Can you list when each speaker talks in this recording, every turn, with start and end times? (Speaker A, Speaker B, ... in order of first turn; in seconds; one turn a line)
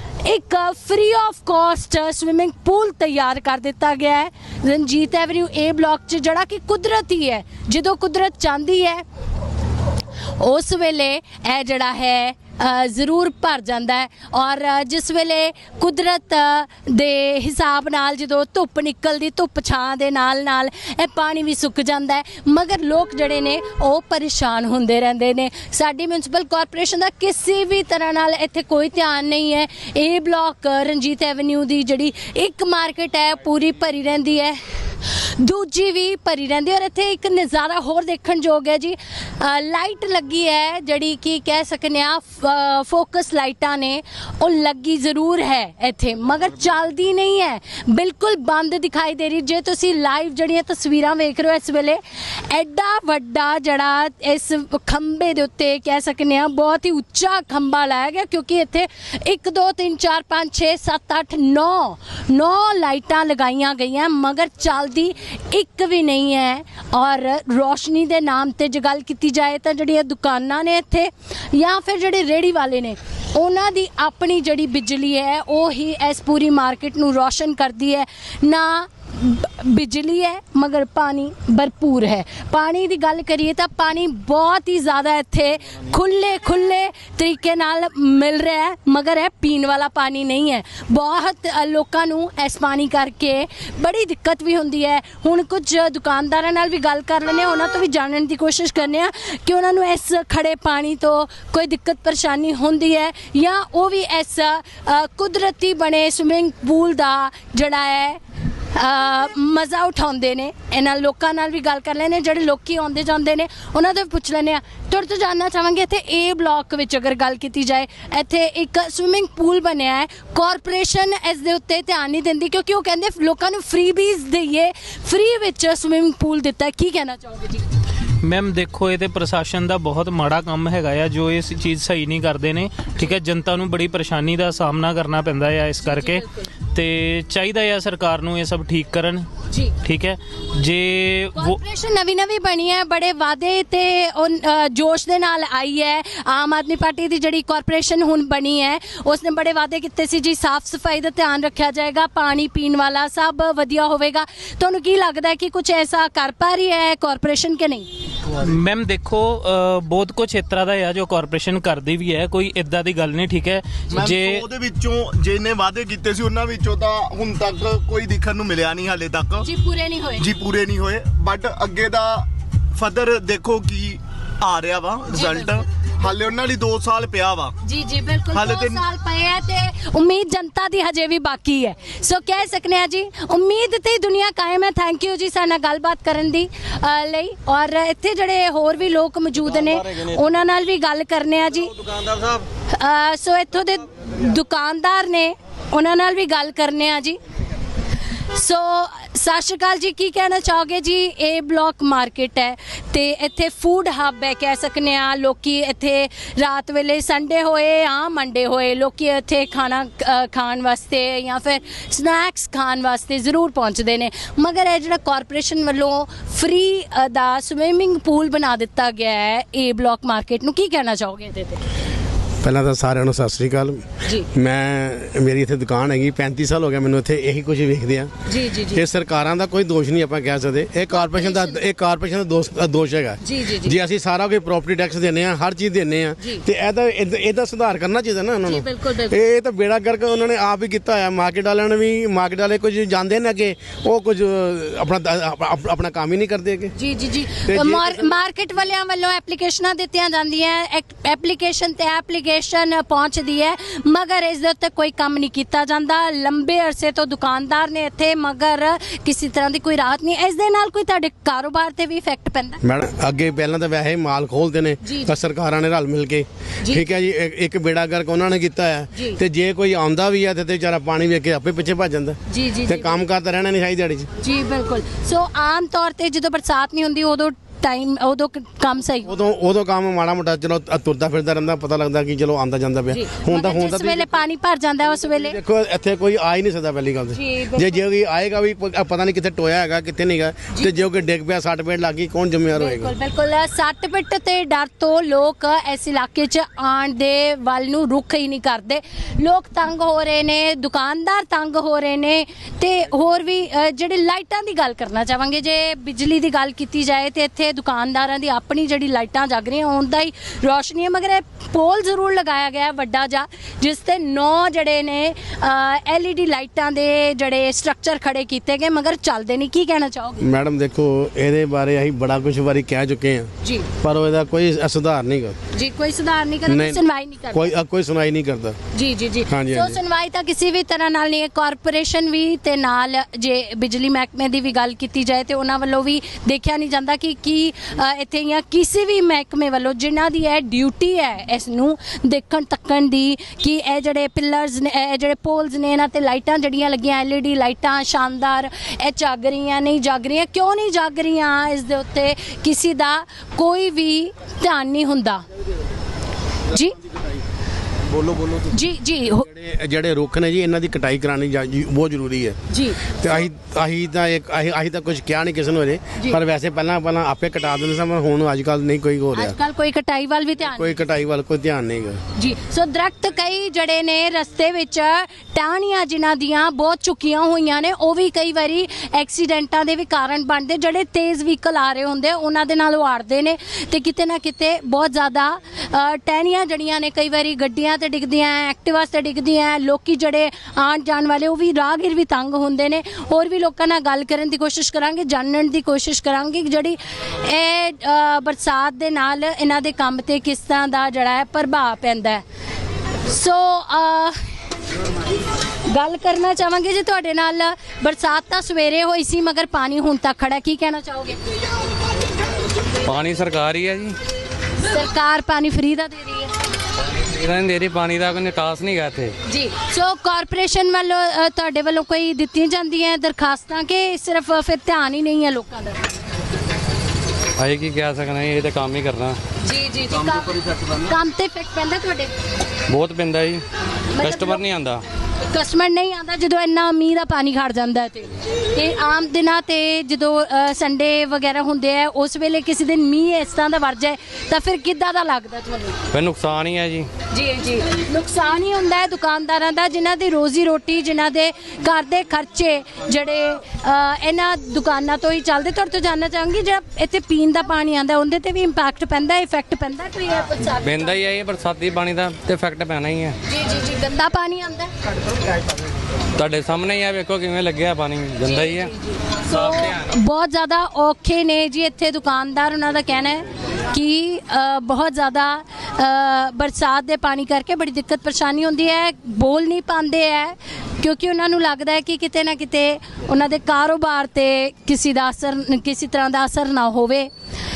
Speaker A: 0.2-9.0
Speaker A: 10.4-108.2
Speaker A: 108.7-127.7
Speaker B: 128.2-139.3
Speaker A: 135.8-136.5
Speaker A: 139.5-139.8
Speaker B: 139.8-141.6
Speaker A: 141.3-157.9
Speaker B: 158.3-164.5
Speaker C: 163.9-169.5
Speaker A: 169.4-170.3
Speaker C: 170.2-177.6
Speaker A: 175.1-175.6
Speaker A: 177.6-197.2
Speaker C: 178.3-178.8
Speaker A: 198.3-221.6
Speaker D: 222.4-246.8
Speaker A: 228.3-228.8
Speaker A: 230.9-231.6
Speaker A: 233.2-233.8
Speaker A: 236.2-236.4
Speaker A: 238.4-239.2
Speaker A: 246.8-262.6
Speaker D: 247.3-248.2
Speaker D: 262.6-274.1
Speaker A: 264.8-265.2
Speaker A: 268.9-269.2
Speaker A: 272.3-273.0
Speaker A: 274.2-279.1
Speaker D: 279.1-284.1
Speaker A: 282.9-285.4
Speaker D: 285.0-292.9
Speaker A: 287.1-287.8
Speaker A: 292.5-320.3
Speaker D: 320.2-325.4
Speaker A: 323.4-323.7
Speaker A: 325.5-327.5
Speaker D: 326.5-328.6
Speaker A: 328.7-355.2
Speaker D: 329.3-329.8
Speaker A: 356.5-356.8
Speaker D: 357.9-358.4
Speaker A: 358.5-359.3
Speaker D: 359.3-369.4
Speaker A: 362.5-362.9
Speaker A: 369.1-370.8
Speaker D: 370.5-372.0
Speaker A: 372.1-402.2
Speaker A: 403.1-404.2
Speaker A: 405.7-411.2
Speaker E: 412.8-414.0
Speaker A: 414.6-416.3
Speaker E: 416.9-419.1
Speaker A: 419.2-425.8
Speaker E: 427.4-429.2
Speaker A: 429.4-432.1
Speaker E: 432.7-433.4
Speaker A: 433.9-434.4
Speaker E: 434.0-434.8
Speaker A: 435.3-445.8
Speaker E: 445.9-446.9
Speaker A: 447.1-461.0
Speaker E: 460.6-463.2
Speaker A: 463.3-464.7
Speaker E: 466.2-468.7
Speaker A: 468.2-487.1
Speaker E: 469.4-469.8